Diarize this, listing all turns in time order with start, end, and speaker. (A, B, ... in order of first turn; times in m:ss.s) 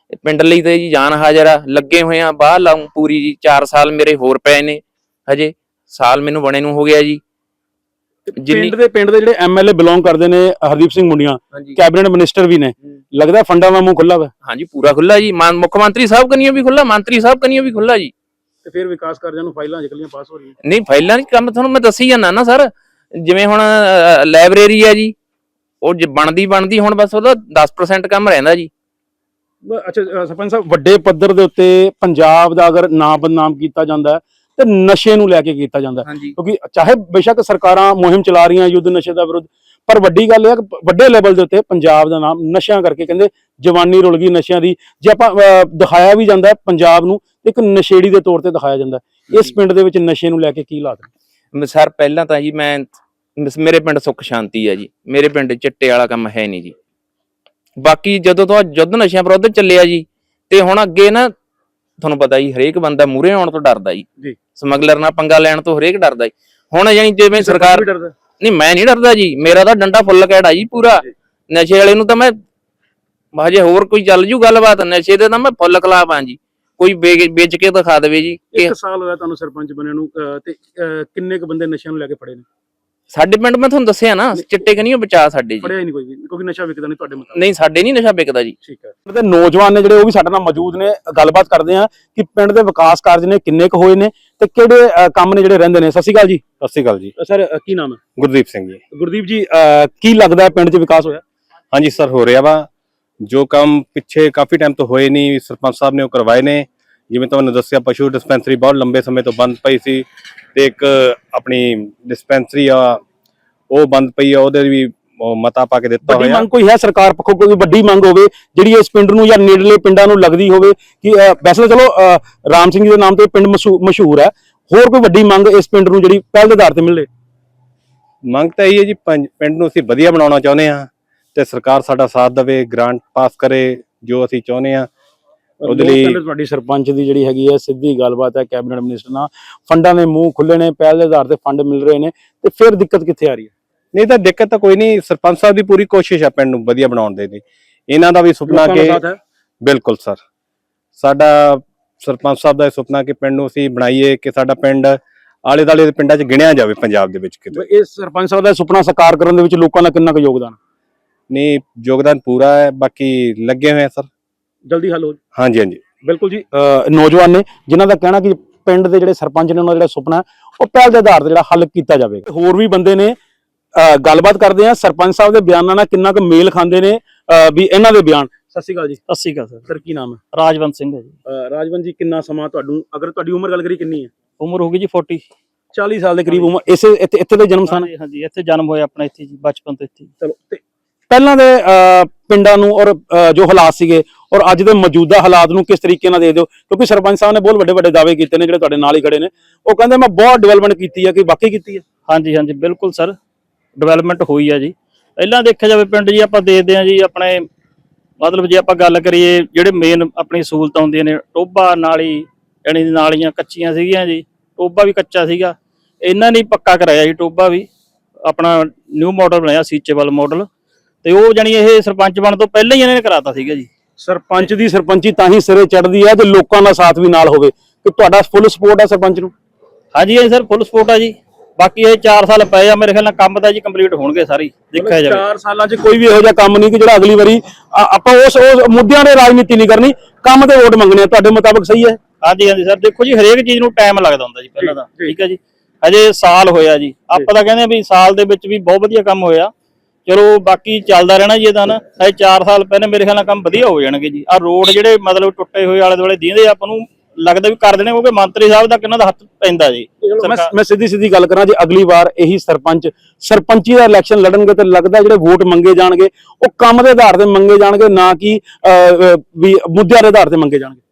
0:00.1-0:07.2 A
0:08.3-0:14.3 B
0:08.4-0:08.7 A
0:14.4-0:18.1 A
0:18.6-0:20.6 B
0:20.6-0:25.1 A
0:25.8-0:28.7 A
0:29.6-0:51.1 B
0:36.0-0:36.4 A
0:51.5-0:56.8 A
0:57.8-1:01.3 A
1:02.0-1:07.8 A
1:07.4-1:08.1 B
1:08.4-1:12.4 A
1:13.3-1:18.7 A
1:18.5-1:22.4 B
1:23.1-1:25.7 A
1:25.6-1:27.4 B
1:27.3-1:28.6 A
1:28.6-1:36.4 B
1:36.6-1:37.1 C
1:37.2-1:38.0 B
1:38.2-1:38.8 C
1:38.9-1:41.2 B
1:41.7-1:42.7 C
1:43.2-1:53.0 C
1:53.7-1:56.5 C
1:56.1-2:07.1 B
2:08.3-2:14.9 C
2:15.6-2:23.5 B
2:15.7-2:16.2 C
2:23.9-2:29.0 C
2:28.5-2:29.2 B
2:29.6-2:30.2 C
2:31.0-2:37.6 C
2:37.5-2:40.6 B
2:41.3-2:44.1 C
2:44.7-2:45.2 B
2:45.4-2:45.8 C
2:46.0-2:53.2 B
2:53.8-2:59.0 B
2:59.1-2:59.7 D
2:59.7-3:00.2 B
3:00.3-3:01.2 D
3:01.3-3:04.1 B
3:04.4-3:05.3 D
3:05.7-3:07.9 B
3:07.7-3:10.1 D
3:10.2-3:21.8 B
3:22.1-3:23.2 D
3:23.8-3:27.4 D
3:28.2-3:37.7 D
3:38.3-3:40.5 D
3:41.0-3:43.7 D
3:44.0-3:49.3 B
3:49.9-3:55.2 D
3:54.8-4:02.0 B
4:02.2-4:09.5 D
4:04.6-4:05.1 B
4:10.1-4:20.5 D
4:20.2-4:30.8 B